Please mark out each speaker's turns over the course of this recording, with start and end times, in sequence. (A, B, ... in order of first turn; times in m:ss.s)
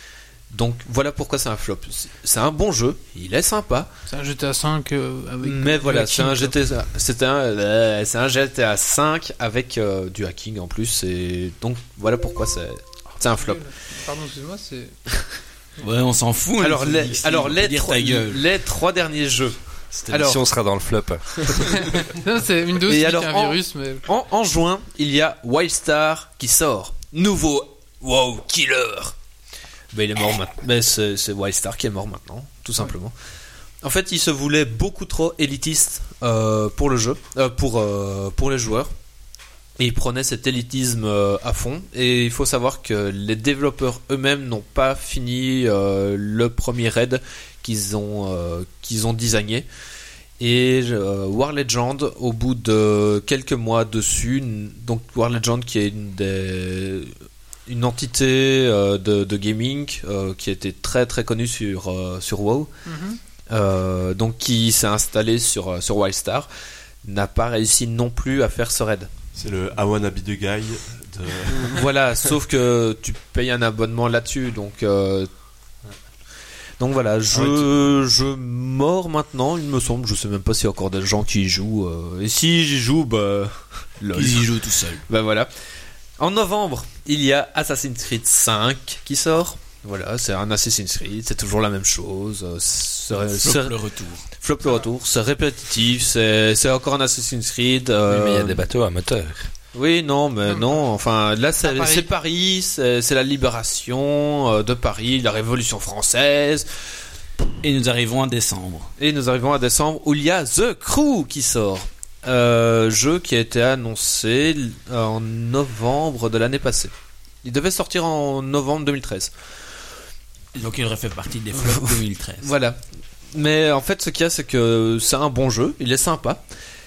0:00.5-0:03.9 A
0:04.1-0:06.6 B
0:05.4-0:13.6 A
0:13.2-0:15.0 B
0:15.8-0:18.4 C
0:16.6-0:19.6 A
0:19.9-0:21.8 D
0:20.1-0:20.4 A
0:21.7-0:24.0 B
0:22.8-0:29.2 A
0:29.9-0:33.2 A
0:33.8-0:38.9 A
0:39.8-0:49.7 A
0:50.4-0:57.1 A
0:57.7-1:02.7 A
1:02.9-1:03.2 B
1:03.5-1:06.5 A
1:07.0-1:09.1 A
1:09.4-1:11.9 E
1:11.5-1:15.3 A
1:16.8-1:24.5 A
1:17.3-1:17.7 C
1:24.1-1:25.0 C
1:25.1-1:25.5 A
1:26.2-1:33.8 A
1:33.3-1:34.2 C
1:34.4-1:38.6 A
1:38.1-1:39.5 D
1:39.7-1:46.7 A
1:40.5-1:40.9 B
1:41.6-1:42.1 B
1:47.6-1:48.9 C
1:49.0-1:56.9 A
1:57.4-1:59.3 A
2:00.5-2:02.5 C
2:01.5-2:02.8 A
2:03.3-2:06.4 A